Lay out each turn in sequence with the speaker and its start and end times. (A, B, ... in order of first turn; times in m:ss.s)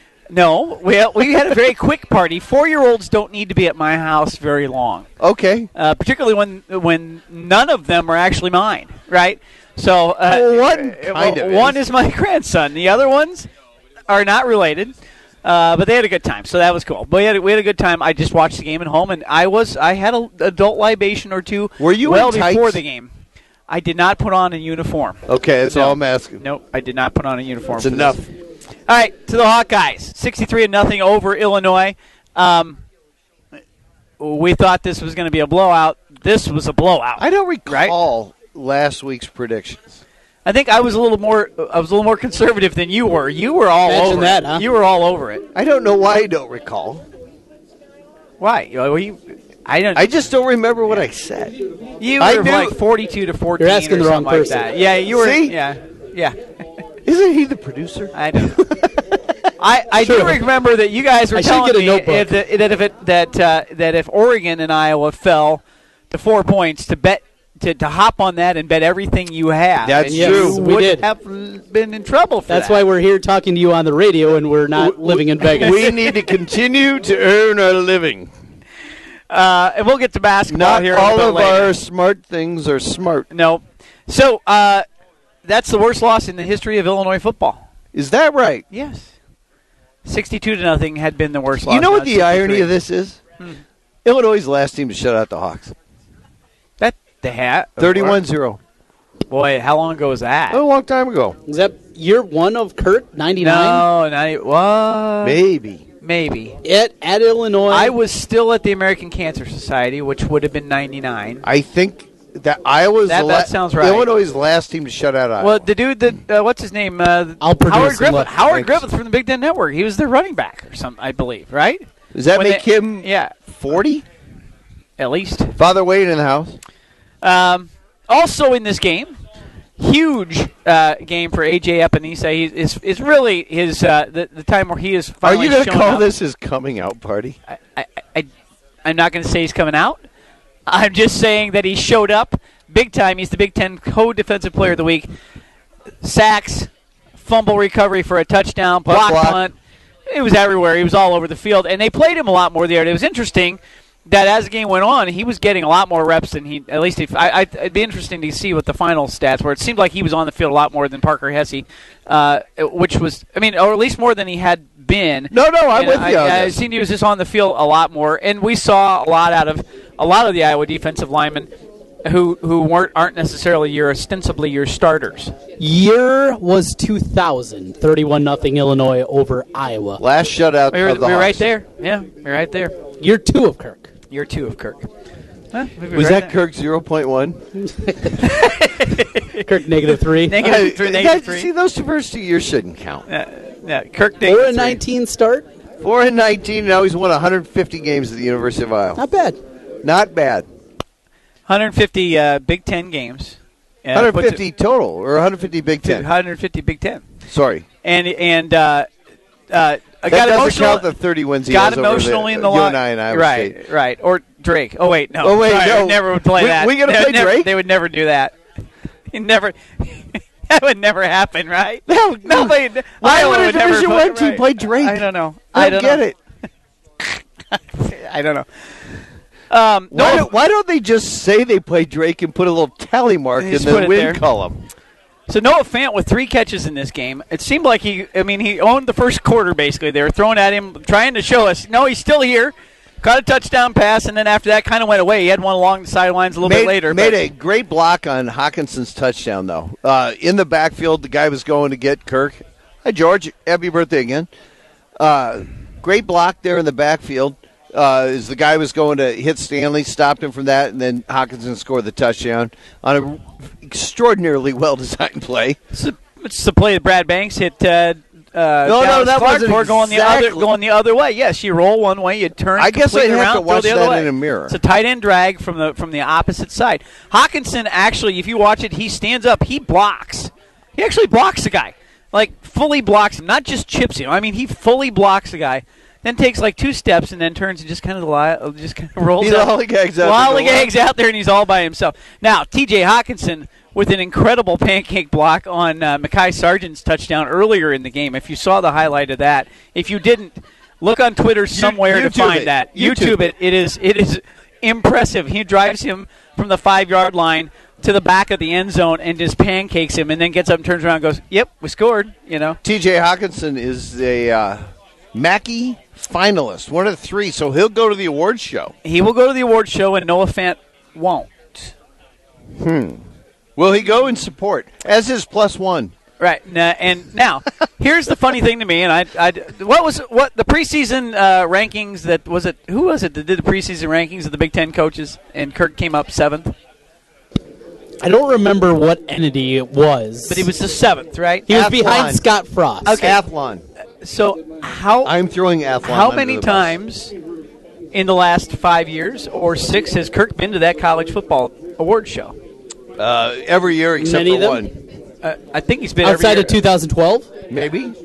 0:00.3-0:05.1 A
0:05.2-0:05.7 B
0:05.8-0:13.5 A
0:10.3-0:11.8 B
0:14.1-0:23.1 A
0:21.8-0:22.8 B
0:23.7-0:28.2 A
0:25.3-0:26.4 B
0:27.8-0:28.3 B
0:28.9-0:32.8 A
0:34.2-0:37.9 A
0:37.2-0:40.0 B
0:40.4-0:45.5 A
0:43.9-0:44.6 C
0:45.6-0:47.0 B
0:48.4-0:50.1 A
0:50.0-0:51.6 B
0:52.0-0:56.4 A
0:52.2-0:52.8 B
0:53.6-0:54.6 C
0:55.1-0:55.6 B
0:57.0-0:58.1 B
0:58.1-0:58.7 A
0:59.6-1:12.9 A
1:00.0-1:00.4 C
1:01.4-1:02.3 C
1:09.8-1:10.9 B
1:10.1-1:11.0 C
1:12.5-1:16.0 C
1:14.8-1:18.3 B
1:15.5-1:15.8 A
1:19.3-1:21.7 A
1:20.5-1:23.3 B
1:23.3-1:24.8 A
1:25.4-1:27.6 A
1:27.9-1:28.6 B
1:28.7-1:29.1 A
1:30.0-1:32.7 A
1:31.6-1:33.2 B
1:34.0-1:35.7 B
1:36.8-1:38.2 A
1:37.8-1:38.6 B
1:39.3-1:40.6 A
1:40.5-1:41.4 B
1:41.5-1:43.8 C
1:43.4-1:45.4 A
1:45.2-1:45.8 B
1:46.0-1:46.6 A
1:46.6-1:47.9 C
1:47.7-1:51.4 A
1:51.4-1:55.6 B
1:53.1-1:54.1 A
1:55.4-2:03.4 A
1:57.4-1:58.3 C
1:58.4-1:58.8 B
2:02.1-2:04.0 B
2:05.0-2:05.6 A
2:05.6-2:06.6 B
2:07.2-2:09.2 A
2:09.8-2:16.1 A
2:15.2-2:17.4 B
2:17.5-2:18.3 A
2:18.8-2:20.0 A
2:20.7-2:25.1 A
2:26.0-2:29.6 A
2:28.9-2:29.4 B
2:30.1-2:51.5 A
2:45.3-2:46.6 B
2:52.0-2:55.3 A
2:55.6-3:00.0 C
3:00.0-3:01.5 B
3:00.7-3:02.8 A
3:03.0-3:03.8 C
3:04.1-3:04.9 A
3:05.5-3:06.3 A
3:05.9-3:07.4 B
3:08.2-3:09.5 A
3:09.5-3:10.4 C
3:10.2-3:11.5 A
3:10.4-3:13.1 B
3:13.1-3:14.8 A
3:14.2-3:15.5 C
3:15.8-3:19.0 B
3:19.0-3:19.4 C
3:19.8-3:20.5 B
3:21.5-3:24.4 A
3:23.9-3:26.1 B
3:25.8-3:27.0 A
3:27.3-3:27.6 B
3:27.8-3:28.9 A
3:29.5-3:30.9 A
3:30.1-3:33.6 B
3:31.5-3:38.4 A
3:35.2-3:37.5 B
3:39.1-3:46.0 A
3:41.9-3:46.2 B
3:47.0-3:48.5 A
3:49.5-3:50.3 A
3:49.9-3:54.6 B
3:53.4-3:54.2 A
3:55.3-4:07.2 A
4:06.4-4:14.3 B
4:15.0-4:25.6 B
4:25.7-5:12.6 A
4:28.6-4:30.5 B
4:32.6-4:34.6 B
4:49.2-4:50.7 B
5:01.5-5:03.2 B
5:12.6-5:14.6 B
5:15.1-5:18.7 B
5:18.8-5:21.7 A
5:22.6-5:23.0 B
5:23.6-5:25.9 B
5:26.2-5:36.6 A
5:38.0-5:40.5 C
5:40.3-5:41.5 A
5:41.5-5:42.2 B
5:41.5-5:43.0 C
5:42.8-5:43.2 A
5:42.9-5:43.6 B
5:44.0-5:45.1 A
5:45.0-5:46.7 B
5:45.8-5:47.1 A
5:47.9-5:52.4 A
5:53.0-5:54.7 B
5:54.0-5:54.7 C
5:55.2-5:56.6 A
5:56.0-5:57.3 C
5:57.5-5:58.0 B